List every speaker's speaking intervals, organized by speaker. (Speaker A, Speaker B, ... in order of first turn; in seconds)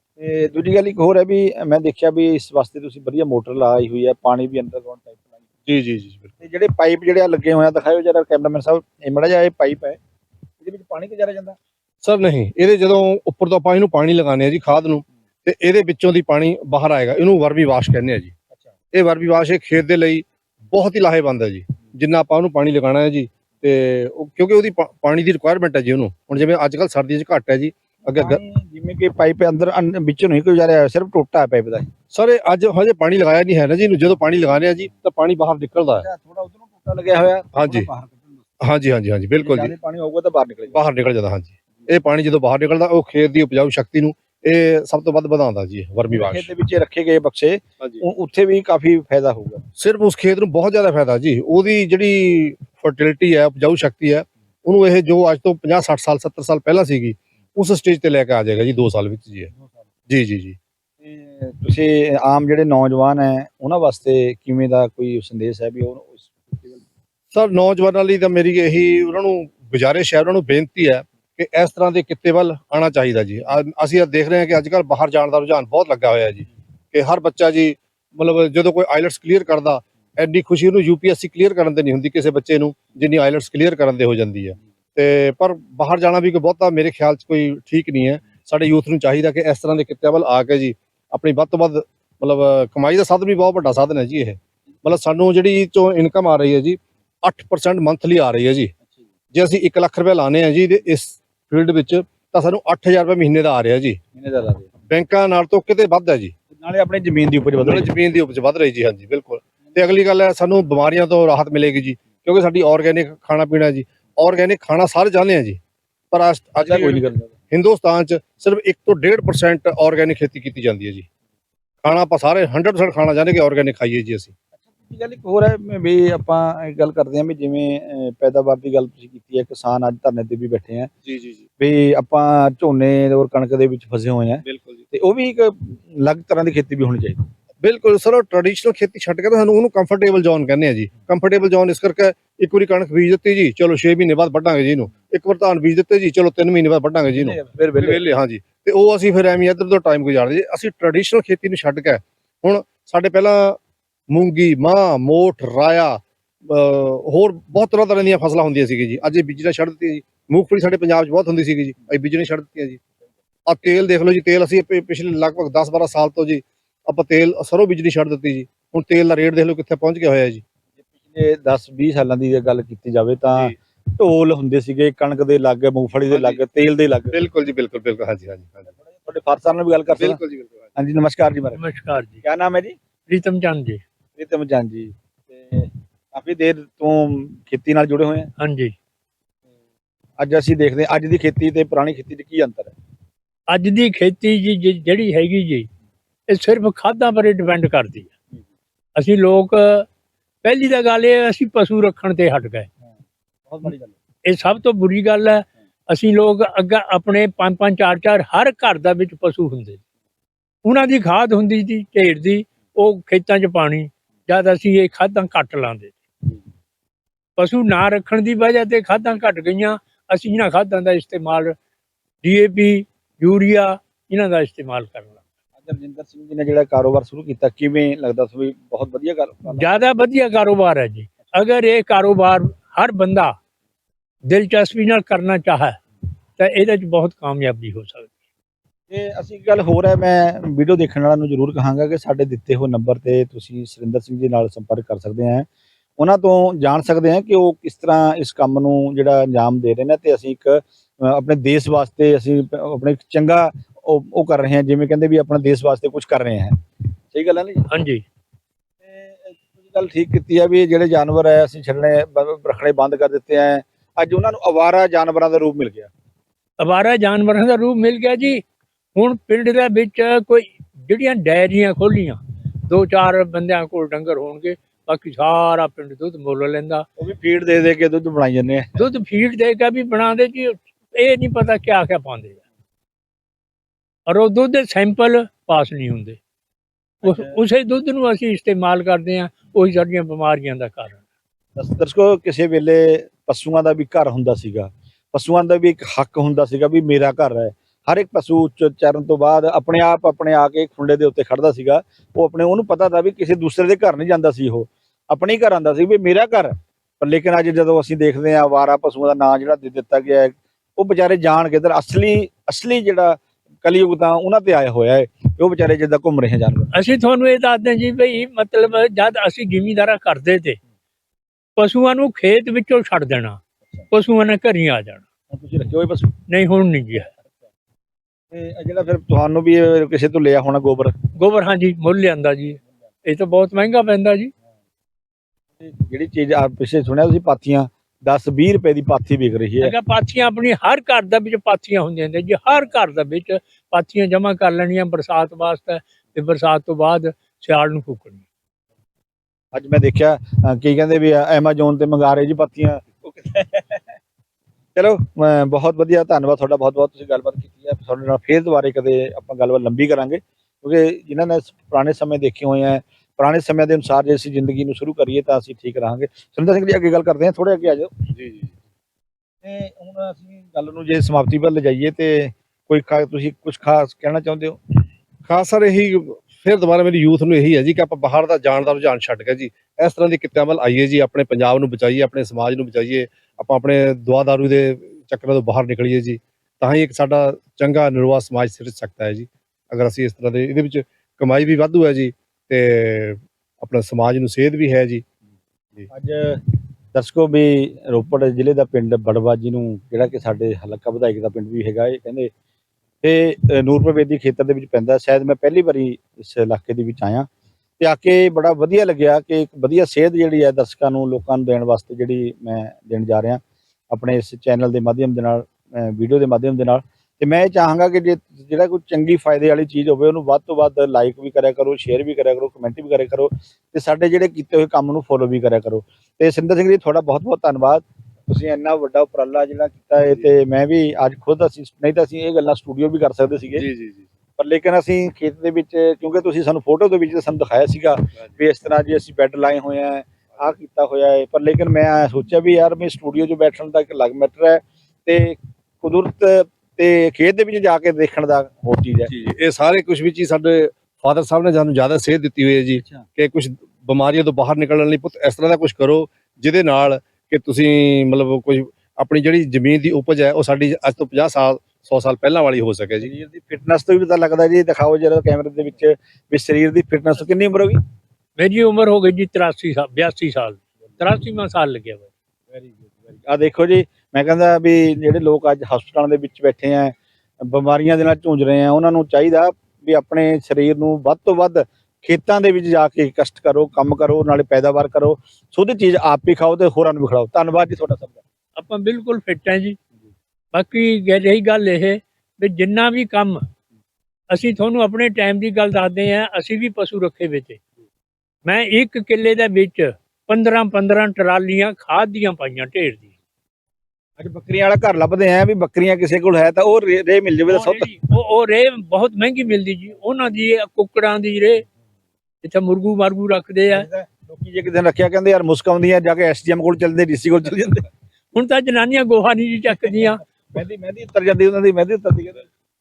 Speaker A: 0.2-5.2, 6.4-10.0, 10.6-11.6, 28.1-31.9, 35.8-38.4, 39.4-40.8, 46.1-49.6, 61.0-66.8, 104.1-104.7, 106.5-107.9, 116.6-117.3, 124.8-130.9, 131.6-137.3, 147.1-148.0, 171.1-177.1, 178.9-180.2, 180.8-181.6, 182.2-182.8, 184.2-188.3, 190.2-192.7, 203.5-203.9, 225.6-229.7, 238.9-245.5, 246.0-256.6, 257.1-257.7, 258.9-265.9, 277.0-278.7, 287.0-287.3, 291.6-316.7, 325.3-326.2, 328.3-331.1, 335.6-339.7, 349.5-353.9, 354.8-368.1, 369.4-374.6, 395.9-402.3, 403.0-407.3, 407.8-433.7, 434.4-449.1, 452.8-453.1, 463.0-467.8, 472.6-488.2, 504.2-507.9, 513.7-517.9, 520.5-522.5
Speaker B: 5.7-6.3, 12.0-18.3, 18.9-28.4, 32.1-36.1, 37.5-37.9, 38.6-39.7, 40.7-46.5, 49.8-59.5, 60.1-60.6, 67.3-98.7, 99.3-104.0, 104.9-106.3, 107.6-115.6, 116.1-121.1, 121.8-124.3, 131.1-131.4, 134.4-134.8, 137.6-153.6, 154.1-162.8, 163.5-170.4, 176.1-176.4, 177.1-178.7, 180.0-180.6, 368.1-368.5, 375.3-395.0, 433.6-434.1, 449.1-463.1
Speaker C: 181.6-182.2, 183.1-183.8, 188.4-188.7, 193.5-195.7, 196.3-198.1, 198.9-199.9, 200.4-202.7, 204.2-209.8, 210.6-215.9, 217.4-221.6, 222.2-225.2, 229.5-233.4, 234.3-235.8, 236.4-238.1, 257.7-258.0, 266.6-268.4, 268.9-276.9, 278.8-282.4, 284.1-286.2, 287.0-291.0, 316.7-320.6, 321.6-323.4, 323.9-325.0, 326.3-327.1, 331.1-334.3, 339.6-348.2, 468.4-472.1, 488.6-489.8, 490.5-493.4, 494.3-497.6, 498.4-503.1, 507.5-511.6, 512.4-513.9, 518.3-520.2